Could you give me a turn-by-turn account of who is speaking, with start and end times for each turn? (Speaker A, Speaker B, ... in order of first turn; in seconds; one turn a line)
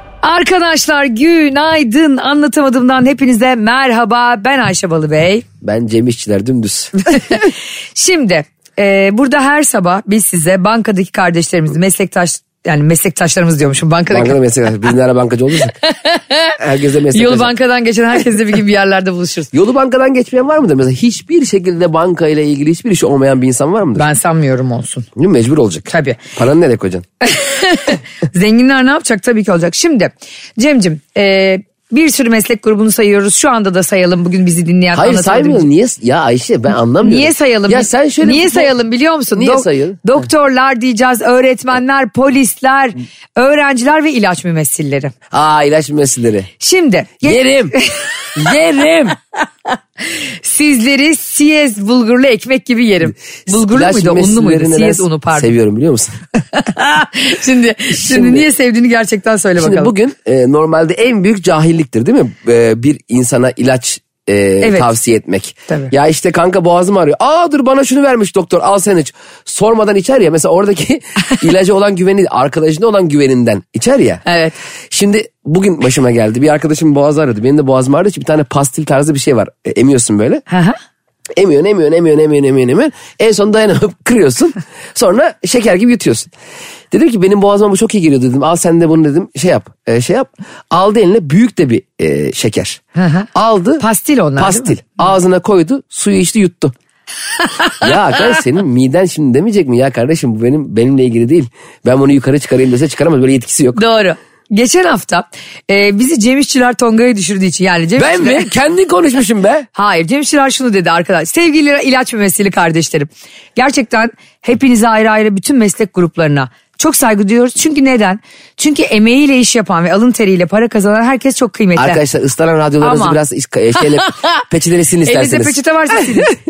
Speaker A: 0.2-5.5
Speaker B: 5.6-6.9
Speaker A: 7.1-14.4
Speaker B: 14.1-15.8
Speaker A: 15.8-16.6
Speaker B: 16.6-17.5
Speaker A: 17.1-19.5
Speaker B: 19.5-24.1
Speaker A: 23.9-25.1
Speaker B: 25.2-27.1
Speaker A: 25.9-26.2
Speaker A: 27.2-35.7
Speaker B: 34.9-38.8
Speaker A: 37.0-45.1
Speaker B: 39.4-40.0
Speaker B: 45.3-46.5
Speaker A: 46.6-48.3
Speaker B: 47.2-47.8
Speaker B: 48.4-49.2
Speaker A: 50.1-55.5
Speaker B: 53.5-56.2
Speaker A: 56.5-59.9
Speaker B: 57.9-58.5
Speaker B: 59.6-74.2
Speaker A: 64.6-64.9
Speaker A: 74.3-74.5
Speaker B: 74.9-80.4
Speaker A: 80.5-80.8
Speaker B: 81.4-86.3
Speaker B: 86.9-92.8
Speaker A: 93.0-93.3
Speaker B: 93.3-93.8
Speaker A: 93.8-94.7
Speaker B: 94.4-96.7
Speaker A: 97.5-97.7
Speaker B: 97.8-103.8
Speaker A: 103.8-108.5
Speaker B: 108.0-109.7
Speaker A: 109.8-122.0
Speaker B: 121.8-125.6
Speaker A: 122.8-123.2
Speaker A: 125.0-126.3